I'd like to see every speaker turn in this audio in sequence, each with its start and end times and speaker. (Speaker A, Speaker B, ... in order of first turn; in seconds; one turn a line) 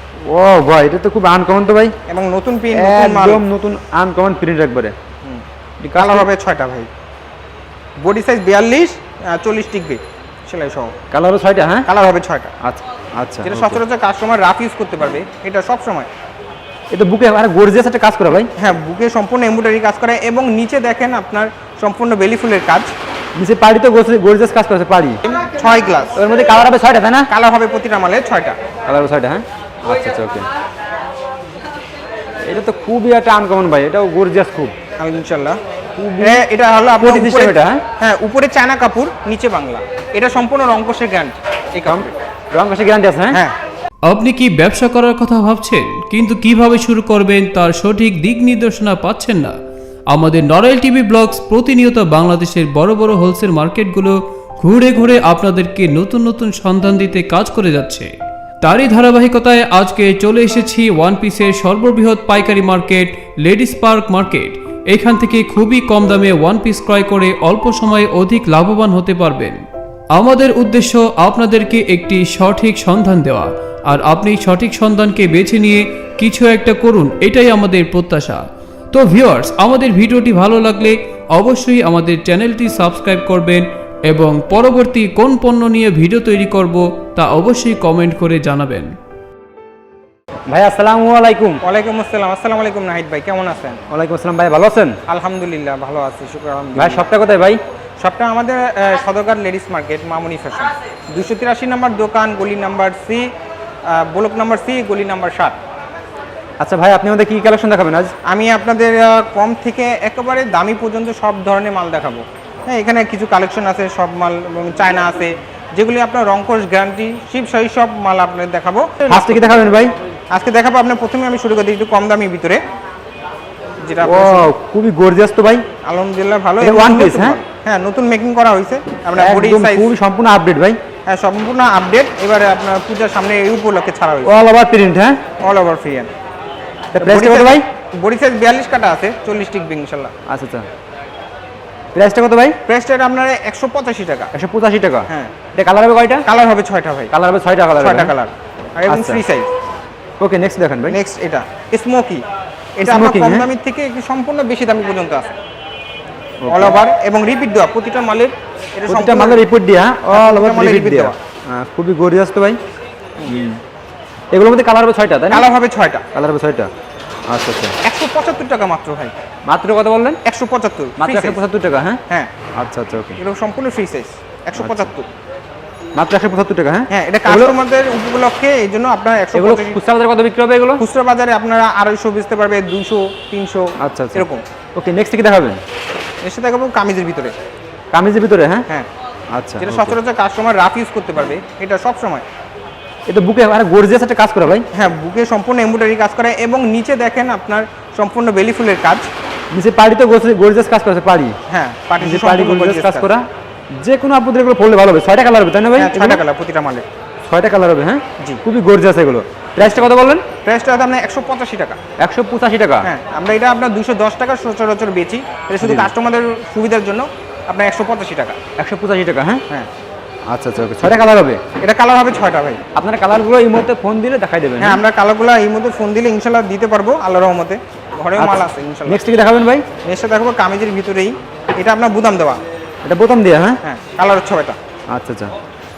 Speaker A: 0.3-1.9
Speaker B: 2.1-3.4
Speaker A: 2.7-4.9
Speaker A: 5.8-6.3
Speaker B: 6.0-6.9
Speaker B: 8.0-10.9
Speaker A: 11.1-11.9
Speaker B: 11.9-12.5
Speaker A: 12.6-13.8
Speaker B: 13.4-16.1
Speaker A: 16.9-18.5
Speaker B: 18.6-22.9
Speaker A: 23.4-25.2
Speaker B: 25.2-26.2
Speaker A: 26.1-27.3
Speaker B: 27.3-28.6
Speaker A: 28.9-30.5
Speaker A: 32.4-34.8
Speaker B: 35.0-35.6
Speaker A: 36.0-36.5
Speaker B: 36.2-42.2
Speaker A: 37.0-37.8
Speaker A: 41.9-43.4
Speaker C: 44.0-49.6
Speaker C: 50.1-58.1
Speaker C: 58.6-88.9
Speaker A: 90.5-91.6
Speaker B: 91.6-93.8
Speaker A: 93.9-95.0
Speaker B: 95.1-97.1
Speaker A: 96.8-97.6
Speaker B: 98.0-103.3
Speaker B: 103.9-105.6
Speaker A: 106.6-108.1
Speaker B: 108.3-119.7
Speaker A: 119.1-119.9
Speaker B: 120.3-122.6
Speaker B: 123.8-124.5
Speaker A: 124.0-125.7
Speaker B: 125.8-129.9
Speaker A: 126.6-127.4
Speaker A: 129.2-130.8
Speaker B: 131.1-134.4
Speaker A: 134.2-135.2
Speaker B: 135.4-136.1
Speaker A: 136.9-137.7
Speaker B: 137.0-140.1
Speaker A: 140.3-140.7
Speaker A: 141.9-142.6
Speaker B: 142.7-144.3
Speaker A: 144.3-146.3
Speaker B: 145.1-145.3
Speaker B: 146.2-147.1
Speaker A: 147.1-148.1
Speaker B: 147.8-149.5
Speaker A: 148.9-149.2
Speaker A: 150.2-151.0
Speaker B: 150.9-152.2
Speaker B: 152.8-155.3
Speaker A: 152.8-153.5
Speaker A: 156.4-156.8
Speaker B: 156.5-159.4
Speaker A: 158.9-162.6
Speaker B: 160.1-161.2
Speaker A: 163.3-163.6
Speaker A: 164.3-165.5
Speaker B: 165.3-166.1
Speaker A: 166.1-166.7
Speaker A: 167.3-167.8
Speaker B: 167.8-169.1
Speaker A: 169.5-170.2
Speaker B: 170.2-171.4
Speaker A: 171.0-172.0
Speaker A: 172.6-173.2
Speaker B: 173.2-175.1
Speaker A: 174.6-174.9
Speaker A: 176.0-177.6
Speaker B: 176.9-179.8
Speaker A: 179.3-180.8
Speaker B: 180.8-184.4
Speaker A: 183.8-185.6
Speaker B: 186.2-187.3
Speaker A: 187.9-188.7
Speaker A: 189.3-190.0
Speaker B: 189.6-192.2
Speaker A: 193.1-194.7
Speaker B: 194.7-199.1
Speaker A: 199.5-201.4
Speaker B: 201.5-203.1
Speaker A: 202.0-203.3
Speaker A: 203.8-206.2
Speaker B: 205.8-206.9
Speaker A: 207.2-210.2
Speaker B: 210.4-211.8
Speaker A: 212.0-212.9
Speaker B: 212.8-218.4
Speaker A: 215.6-215.9
Speaker A: 218.6-219.4
Speaker A: 220.3-221.4
Speaker B: 221.6-222.6
Speaker A: 222.8-224.8
Speaker B: 224.6-229.0
Speaker A: 228.2-229.7
Speaker B: 229.8-232.4
Speaker A: 232.8-233.6
Speaker B: 233.6-234.6
Speaker A: 234.9-235.3